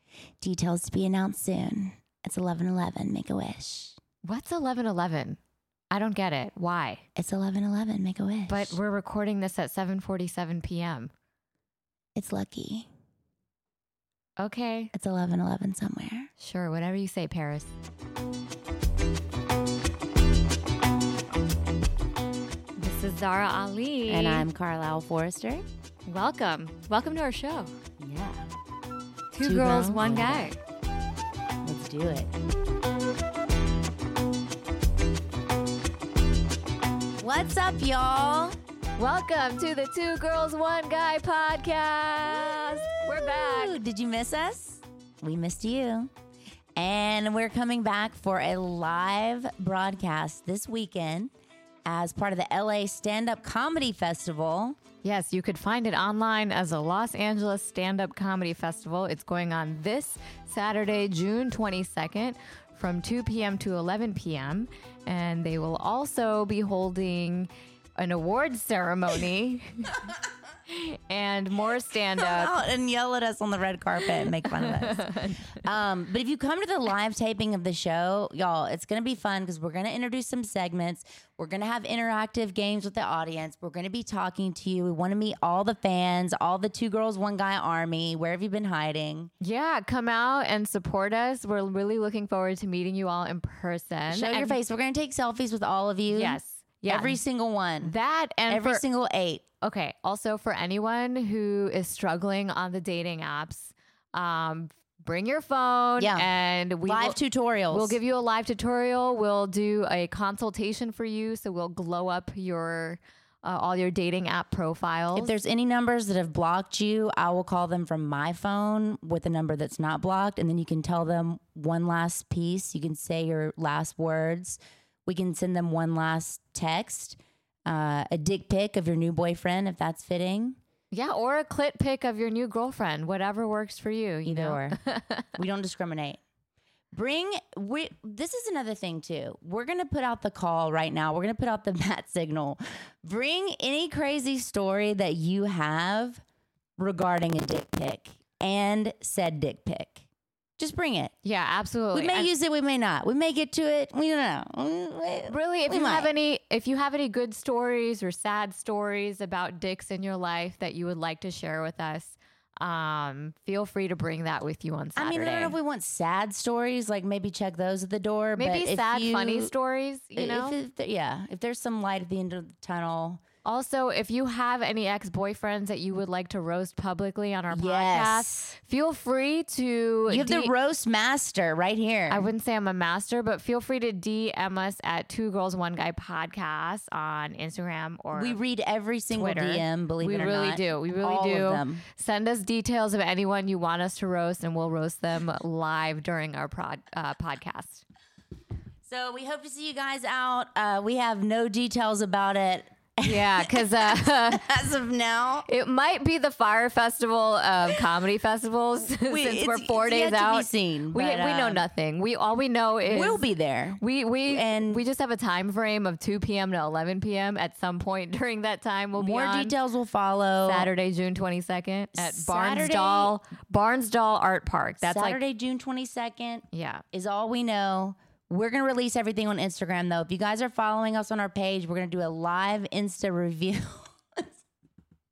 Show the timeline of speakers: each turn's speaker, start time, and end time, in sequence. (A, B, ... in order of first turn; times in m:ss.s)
0:00.4-0:04.0 A
0:04.2-0:05.4 B
0:05.9-0:07.0 B
0:07.2-0:08.8 A
0:08.5-0:11.1 B
0:12.2-0:12.9 A
0:14.4-0:14.9 B
0:14.9-0:16.3 A
0:16.4-0:17.7 B
0:22.8-0:24.5 B
0:24.1-0:25.6 A
0:26.0-0:27.7 B
0:28.0-0:28.5 A
0:29.3-0:30.6 B
0:29.4-0:30.5 A
0:31.6-0:32.3 A
0:37.2-0:38.6 A
0:39.0-0:43.8 B
0:43.2-0:46.1 A
0:46.8-0:51.3 A
0:51.8-0:54.8 A
0:55.0-1:10.1 B
1:10.7-1:12.6 B
1:12.2-1:29.3 A
1:14.1-1:15.4 B
1:29.4-1:34.6 B
1:34.1-1:37.9 A
1:36.1-1:37.2 B
1:37.8-1:38.8 B
1:38.5-1:39.4 A
1:39.6-1:47.2 B
1:46.0-1:46.3 A
1:46.8-1:48.0 A
1:47.7-1:55.3 B
1:55.1-2:10.6 A
2:10.9-2:15.3 B
2:14.2-2:14.8 A
2:15.3-2:16.2 A
2:16.9-2:26.2 A
2:26.8-2:30.1 A
2:30.6-2:31.1 A
2:31.2-2:32.3 B
2:31.9-2:36.1 A
2:35.3-2:45.6 B
2:45.0-2:49.5 A
2:48.4-2:50.6 B
2:50.2-2:53.2 A
2:53.4-3:00.5 B
2:57.5-2:58.5 A
3:00.1-3:02.3 A
3:02.1-3:08.4 B
3:08.1-3:11.8 A
3:09.1-3:17.8 B
3:18.8-3:25.5 A
3:23.0-3:24.5 B
3:25.4-3:33.2 B
3:28.9-3:31.6 A
3:32.9-3:34.8 A
3:33.8-3:39.5 B
3:38.9-3:40.7 A
3:40.4-3:45.2 B
3:41.9-3:43.1 A
3:44.8-3:54.2 A
3:46.5-3:46.8 B